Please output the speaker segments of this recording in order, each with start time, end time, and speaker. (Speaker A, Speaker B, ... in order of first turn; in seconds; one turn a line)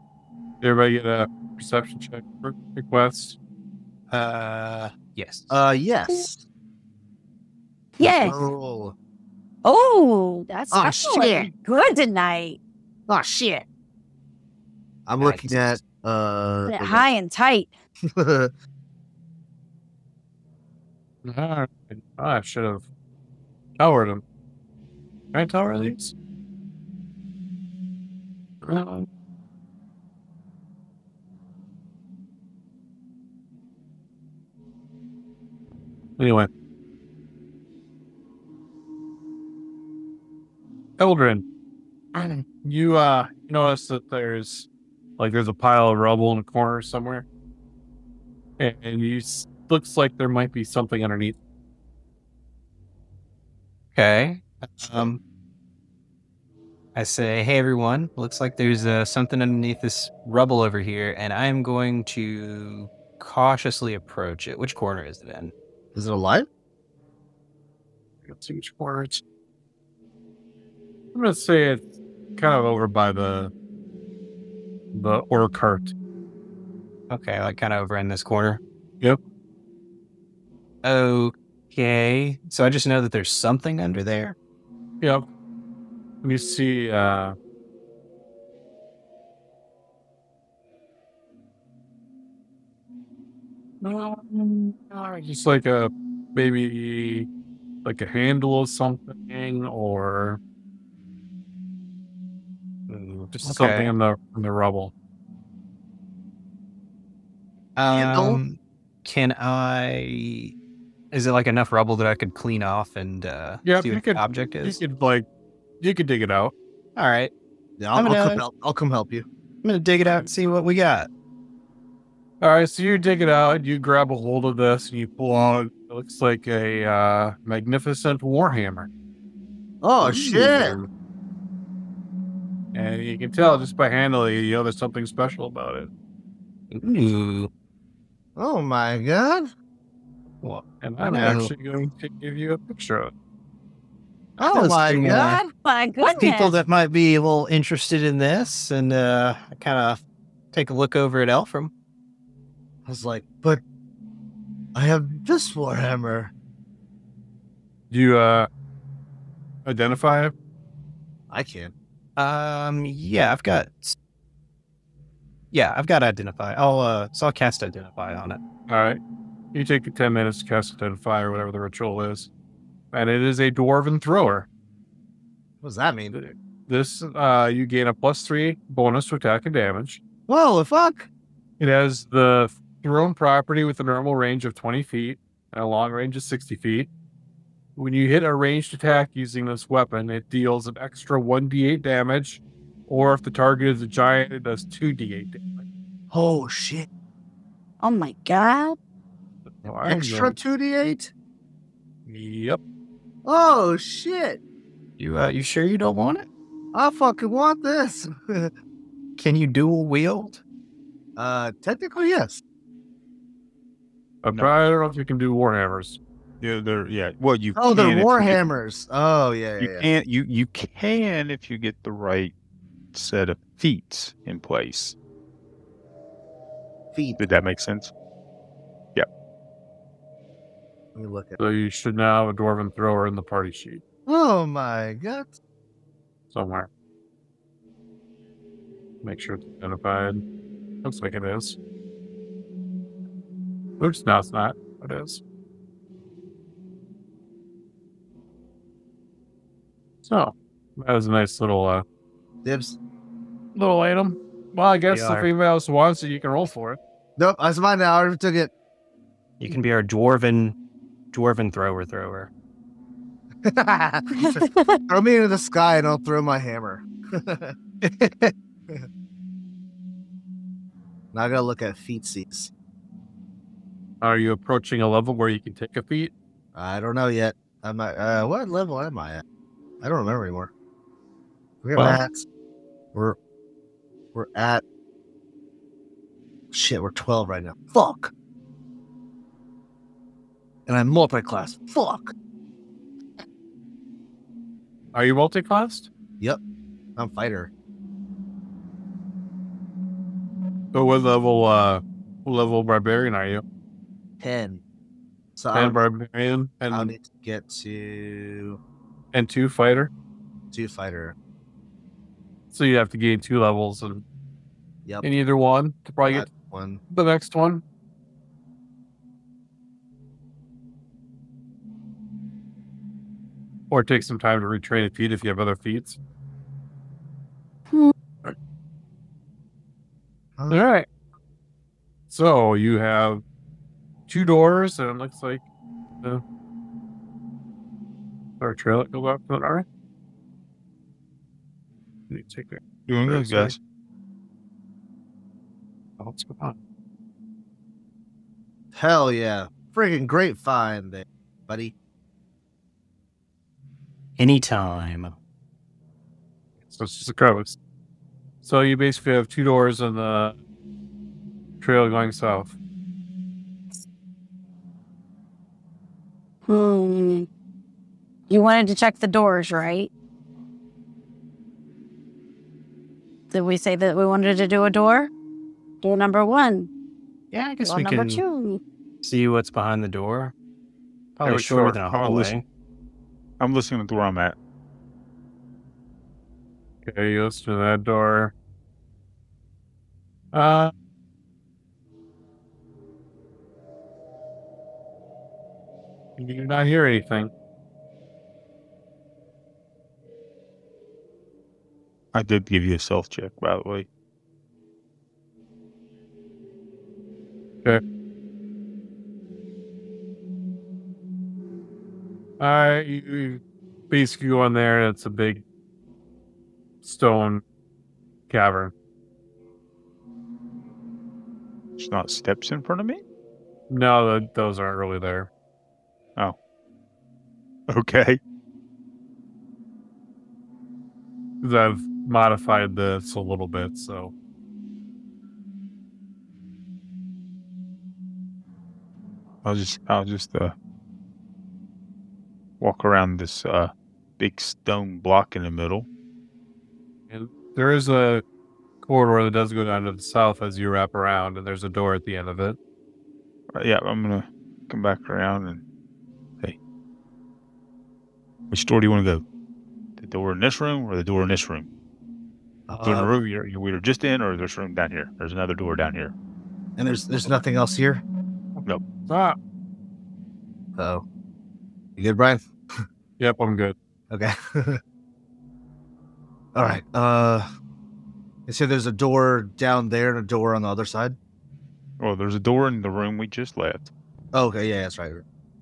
Speaker A: 0.6-3.4
Speaker B: 4.1-5.6
Speaker C: 5.5-6.4
Speaker D: 8.0-8.4
Speaker C: 8.0-8.9
Speaker D: 9.6-12.6
Speaker C: 10.7-11.5
Speaker C: 13.1-13.6
Speaker C: 15.1-17.0
Speaker B: 15.2-15.8
Speaker D: 16.7-17.8
Speaker C: 18.1-18.5
Speaker A: 21.2-22.8
Speaker A: 23.8-24.2
Speaker A: 25.3-26.1
Speaker A: 28.6-29.1
Speaker A: 36.2-36.5
Speaker A: 41.0-41.4
Speaker A: 42.1-44.7
Speaker A: 45.2-47.2
Speaker A: 48.6-51.4
Speaker B: 53.9-55.2
Speaker B: 56.9-65.5
Speaker C: 65.9-66.5
Speaker A: 68.2-69.2
Speaker A: 71.1-73.5
Speaker A: 74.9-75.9
Speaker B: 77.1-78.6
Speaker B: 80.8-84.3
Speaker A: 85.0-85.3
Speaker A: 86.2-87.3
Speaker A: 93.8-97.3
Speaker A: 97.8-100.4
Speaker B: 102.9-103.9
Speaker A: 103.4-104.9
Speaker B: 107.8-110.5
Speaker C: 107.9-108.4
Speaker B: 111.1-114.8
Speaker A: 113.6-115.2
Speaker A: 115.8-116.5
Speaker B: 117.0-117.3
Speaker C: 117.8-119.2
Speaker B: 117.9-118.4
Speaker B: 119.6-121.1
Speaker A: 122.4-128.9
Speaker C: 129.8-130.8
Speaker B: 130.0-130.8
Speaker A: 130.4-130.8
Speaker A: 132.7-135.9
Speaker B: 136.7-137.5
Speaker C: 138.3-139.5
Speaker B: 140.4-141.4
Speaker A: 140.8-143.1
Speaker C: 141.1-141.5
Speaker C: 144.4-145.4
Speaker B: 144.4-145.4
Speaker D: 145.1-146.6
Speaker B: 146.0-151.7
Speaker C: 152.8-153.6
Speaker C: 154.7-156.3
Speaker A: 157.9-158.5
Speaker A: 159.6-160.3
Speaker C: 161.3-161.7
Speaker B: 162.2-163.9
Speaker B: 165.5-168.4
Speaker A: 168.7-169.0
Speaker A: 169.5-172.3
Speaker A: 172.9-174.5
Speaker C: 175.6-176.2
Speaker A: 176.1-180.0
Speaker C: 180.3-181.1
Speaker A: 181.6-186.9
Speaker A: 187.8-195.6
Speaker C: 196.1-196.9
Speaker D: 197.8-198.8
Speaker A: 199.5-200.4
Speaker C: 199.8-201.1
Speaker A: 202.1-202.6
Speaker C: 203.2-204.4
Speaker B: 205.0-206.3
Speaker C: 206.7-208.5
Speaker B: 209.2-210.4
Speaker C: 211.2-212.4
Speaker A: 214.2-216.0
Speaker E: 216.4-218.4
Speaker C: 217.6-219.9
Speaker E: 219.6-222.3
Speaker E: 222.9-224.9
Speaker C: 226.9-227.2
Speaker E: 227.2-227.9
Speaker C: 230.9-231.4
Speaker A: 231.4-233.8
Speaker C: 234.1-235.3
Speaker A: 236.3-236.7
Speaker A: 239.0-240.2
Speaker A: 240.8-241.6
Speaker A: 243.8-245.2
Speaker A: 250.0-251.8
Speaker C: 252.4-252.8
Speaker A: 253.5-256.8
Speaker B: 254.9-255.3
Speaker C: 257.2-258.5
Speaker B: 259.4-260.6
Speaker B: 261.1-262.3
Speaker C: 263.4-268.9
Speaker D: 264.2-264.8
Speaker C: 271.1-272.5
Speaker A: 274.0-276.1
Speaker C: 276.5-279.2
Speaker C: 279.8-280.5
Speaker C: 281.6-282.2
Speaker C: 284.1-284.6
Speaker C: 286.5-288.1
Speaker C: 290.7-292.1
Speaker A: 294.9-295.9
Speaker C: 297.0-297.5
Speaker A: 300.7-303.4
Speaker C: 304.2-304.6
Speaker C: 305.4-305.8
Speaker A: 305.5-306.9
Speaker C: 306.7-308.6
Speaker A: 309.1-309.9
Speaker C: 310.5-311.1
Speaker A: 312.5-314.0
Speaker A: 315.0-316.3
Speaker C: 316.1-316.8
Speaker A: 316.9-317.6
Speaker A: 323.7-326.0
Speaker A: 330.5-330.9
Speaker A: 332.1-333.2
Speaker A: 334.1-335.4
Speaker A: 338.4-339.6
Speaker A: 342.1-343.6
Speaker E: 342.9-343.6
Speaker A: 346.0-346.6
Speaker C: 348.7-351.7
Speaker B: 354.2-355.1
Speaker A: 356.8-357.6
Speaker A: 358.4-360.4
Speaker A: 361.6-362.5
Speaker D: 366.5-367.3
Speaker D: 368.3-369.9
Speaker D: 373.3-375.1
Speaker D: 375.8-376.7
Speaker B: 377.3-378.2
Speaker D: 377.6-378.6
Speaker B: 379.0-380.3
Speaker B: 381.1-382.4
Speaker A: 381.2-382.3
Speaker E: 383.4-384.4
Speaker A: 386.8-388.3
Speaker A: 390.3-390.7
Speaker A: 396.2-397.3
Speaker E: 402.1-403.9
Speaker A: 412.4-415.4
Speaker A: 416.8-417.4
Speaker A: 418.3-418.7
Speaker E: 421.8-423.0
Speaker A: 423.7-425.3
Speaker E: 427.7-428.2
Speaker A: 431.4-434.1
Speaker E: 439.4-440.5
Speaker E: 442.6-445.9
Speaker A: 447.1-448.2
Speaker A: 448.8-452.6
Speaker E: 453.5-455.6
Speaker E: 458.5-459.2
Speaker E: 460.0-461.7
Speaker C: 462.7-463.1
Speaker E: 462.8-466.1
Speaker C: 466.8-468.0
Speaker A: 469.1-469.4
Speaker C: 470.8-471.0
Speaker C: 472.0-472.8
Speaker A: 473.2-473.8
Speaker C: 474.1-474.8
Speaker C: 476.5-477.4
Speaker C: 478.5-481.2
Speaker E: 482.0-483.9
Speaker C: 484.3-485.2